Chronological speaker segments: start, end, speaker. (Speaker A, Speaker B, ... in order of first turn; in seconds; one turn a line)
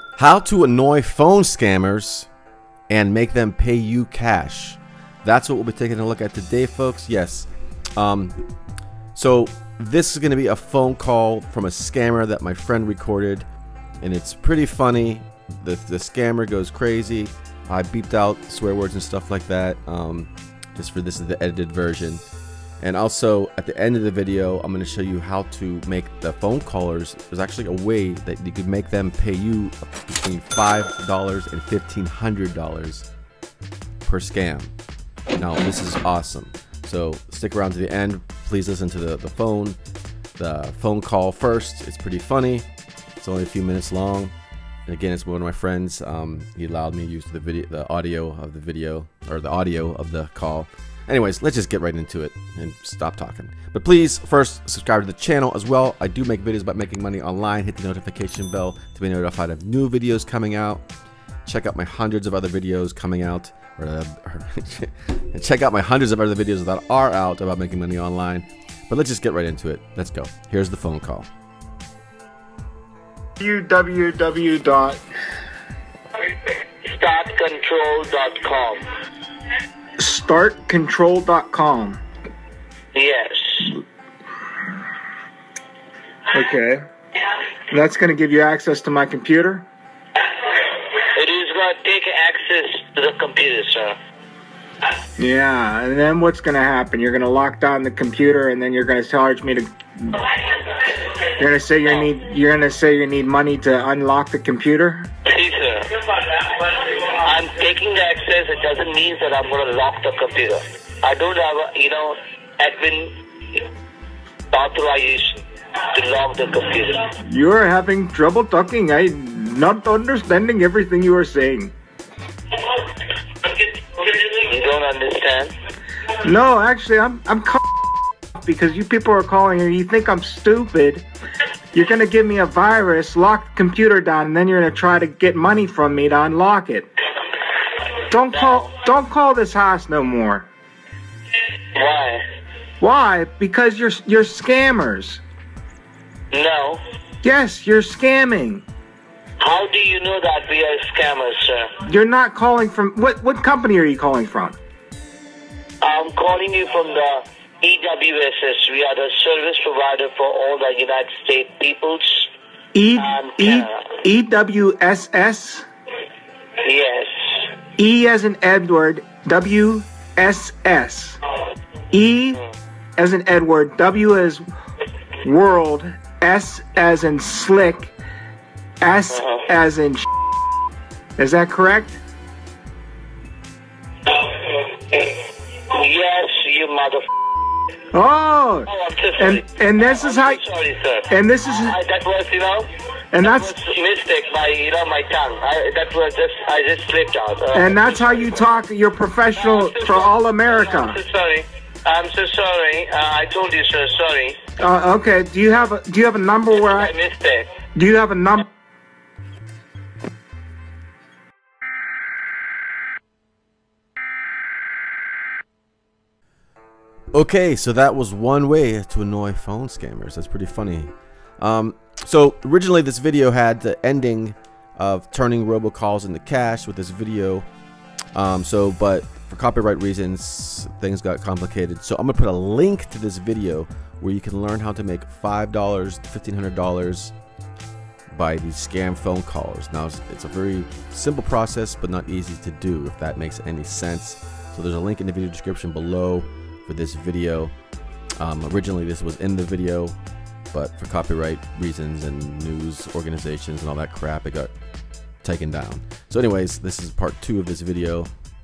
Speaker A: 0.2-2.3
Speaker A: 2.9-8.4
Speaker A: 9.2-13.5
Speaker A: 14.0-22.2
Speaker A: 22.8-33.1
Speaker A: 34.1-34.7
Speaker A: 35.3-39.8
Speaker A: 40.4-42.7
Speaker A: 43.2-44.3
Speaker A: 44.9-60.8
Speaker A: 61.5-71.3
Speaker B: 73.4-75.0
Speaker C: 76.8-78.8
Speaker B: 80.0-82.0
Speaker C: 82.9-83.8
Speaker B: 86.3-86.8
Speaker B: 87.7-89.7
Speaker C: 91.0-94.0
Speaker B: 95.2-100.3
Speaker B: 101.4-105.1
Speaker C: 105.3-113.1
Speaker C: 114.5-117.1
Speaker B: 117.2-121.7
Speaker C: 124.0-125.5
Speaker B: 126.2-127.6
Speaker B: 128.4-131.1
Speaker B: 131.7-136.9
Speaker B: 138.1-140.5
Speaker C: 138.3-138.7
Speaker C: 141.8-142.2
Speaker B: 142.8-145.2
Speaker C: 146.3-146.8
Speaker B: 147.2-148.6
Speaker C: 149.4-151.7
Speaker B: 151.8-154.6
Speaker C: 155.8-162.3
Speaker B: 162.7-165.7
Speaker C: 163.0-164.0
Speaker C: 166.6-167.1
Speaker B: 167.8-171.2
Speaker B: 171.9-172.4
Speaker B: 173.0-174.4
Speaker B: 175.2-177.9
Speaker B: 178.8-180.1
Speaker C: 179.1-179.4
Speaker B: 181.2-182.0
Speaker C: 184.1-187.1
Speaker B: 187.9-190.4
Speaker C: 188.7-192.7
Speaker B: 191.1-191.8
Speaker B: 193.1-193.6
Speaker C: 193.2-198.4
Speaker B: 197.5-201.0
Speaker C: 199.4-204.4
Speaker B: 204.6-206.9
Speaker C: 206.5-207.5
Speaker B: 207.8-208.5
Speaker A: 217.1-227.4
Speaker A: 228.1-237.1
Speaker A: 238.1-247.5
Speaker A: 248.2-250.0
Speaker A: 250.5-254.5
Speaker A: 255.2-258.1